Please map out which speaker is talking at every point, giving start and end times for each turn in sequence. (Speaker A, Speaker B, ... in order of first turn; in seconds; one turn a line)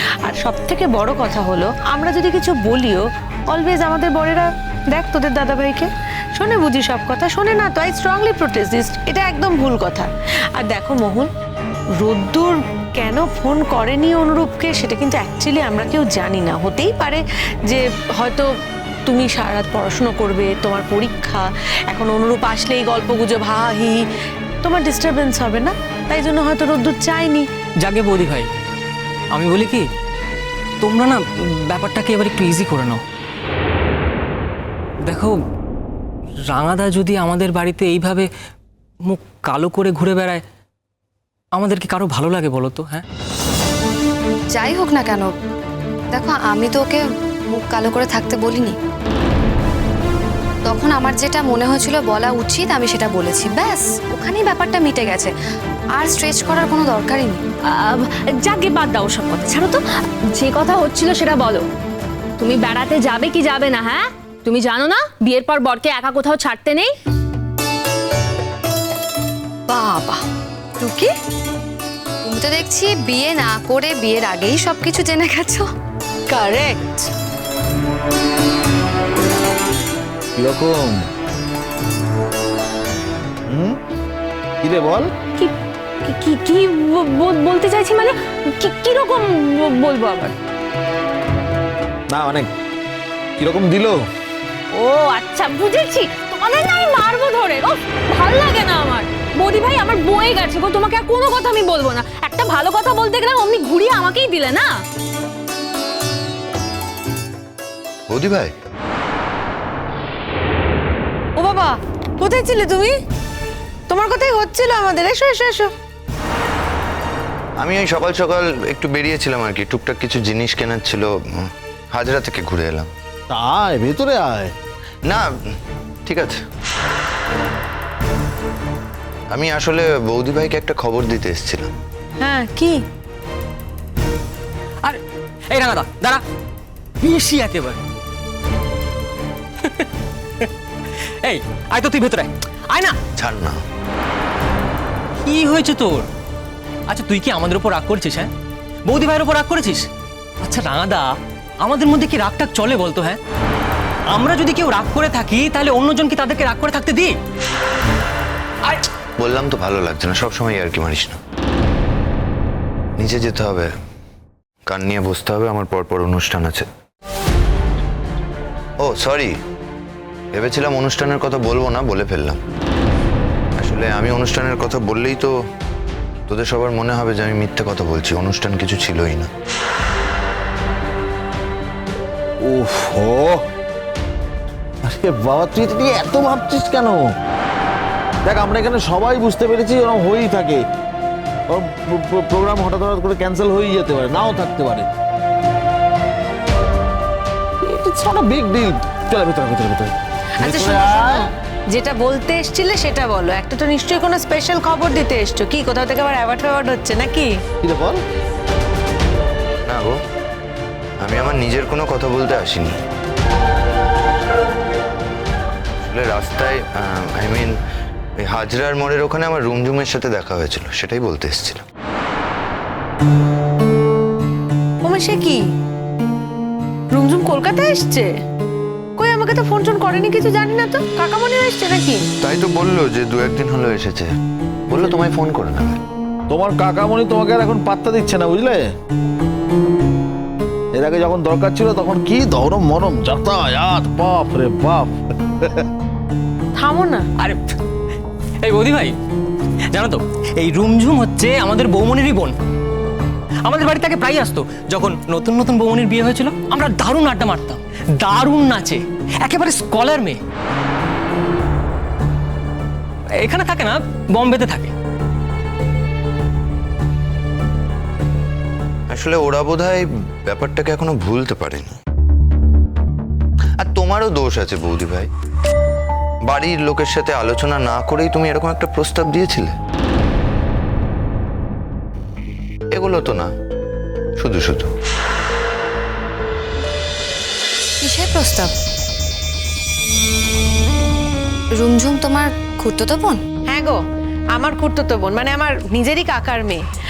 Speaker A: 0.2-11.3
Speaker A: 12.0-18.4
Speaker A: 19.1-24.0
Speaker A: 24.6-27.4
Speaker B: 27.8-28.5
Speaker B: 29.3-29.9
Speaker B: 30.8-33.0
Speaker B: 35.0-35.3
Speaker B: 36.5-38.3
Speaker B: 39.1-40.4
Speaker B: 41.5-43.0
Speaker C: 44.5-45.3
Speaker C: 46.1-48.7
Speaker C: 50.6-55.3
Speaker C: 55.9-57.4
Speaker D: 57.7-59.8
Speaker D: 60.3-61.6
Speaker D: 62.4-66.9
Speaker C: 69.7-70.2
Speaker C: 70.8-71.1
Speaker C: 72.2-75.7
Speaker A: 76.3-77.0
Speaker E: 80.3-81.0
Speaker E: 83.5-83.8
Speaker E: 84.6-85.1
Speaker D: 85.3-90.3
Speaker E: 92.1-92.5
Speaker E: 93.4-94.0
Speaker D: 94.7-104.7
Speaker F: 108.1-108.5
Speaker A: 111.4-112.9
Speaker A: 113.9-115.7
Speaker F: 117.6-122.9
Speaker E: 123.3-124.5
Speaker F: 126.0-126.4
Speaker F: 129.3-131.7
Speaker A: 132.2-132.7
Speaker B: 134.8-136.2
Speaker B: 137.0-137.8
Speaker B: 141.2-142.9
Speaker F: 143.2-143.6
Speaker B: 145.2-146.1
Speaker B: 146.9-148.3
Speaker B: 148.8-149.9
Speaker B: 150.4-153.2
Speaker B: 154.1-157.2
Speaker F: 159.2-161.2
Speaker F: 163.0-163.7
Speaker F: 164.7-166.7
Speaker F: 168.8-169.3
Speaker F: 170.3-172.4
Speaker F: 173.6-175.3
Speaker F: 176.3-179.3
Speaker E: 182.4-183.4
Speaker E: 184.8-187.0
Speaker E: 188.2-190.6
Speaker E: 191.5-194.9
Speaker E: 197.6-201.3
Speaker A: 200.4-201.2
Speaker A: 201.7-207.3
Speaker E: 207.6-208.0
Speaker F: 209.7-210.0
Speaker F: 211.0-212.8
Speaker F: 215.9-217.5
Speaker F: 218.2-221.6
Speaker A: 224.8-225.4
Speaker A: 226.9-228.1
Speaker A: 229.0-232.0
Speaker F: 232.2-234.1
Speaker F: 234.7-235.8
Speaker E: 236.3-238.6
Speaker E: 240.7-245.7
Speaker A: 246.6-247.0
Speaker B: 248.4-248.9
Speaker B: 249.7-252.3
Speaker B: 253.4-260.2
Speaker B: 263.2-264.7
Speaker F: 268.9-271.8
Speaker F: 273.6-275.1
Speaker F: 276.3-279.5
Speaker F: 282.7-283.3
Speaker F: 284.2-284.7
Speaker C: 287.8-288.5
Speaker C: 291.6-293.2
Speaker A: 293.5-293.8
Speaker A: 294.4-296.6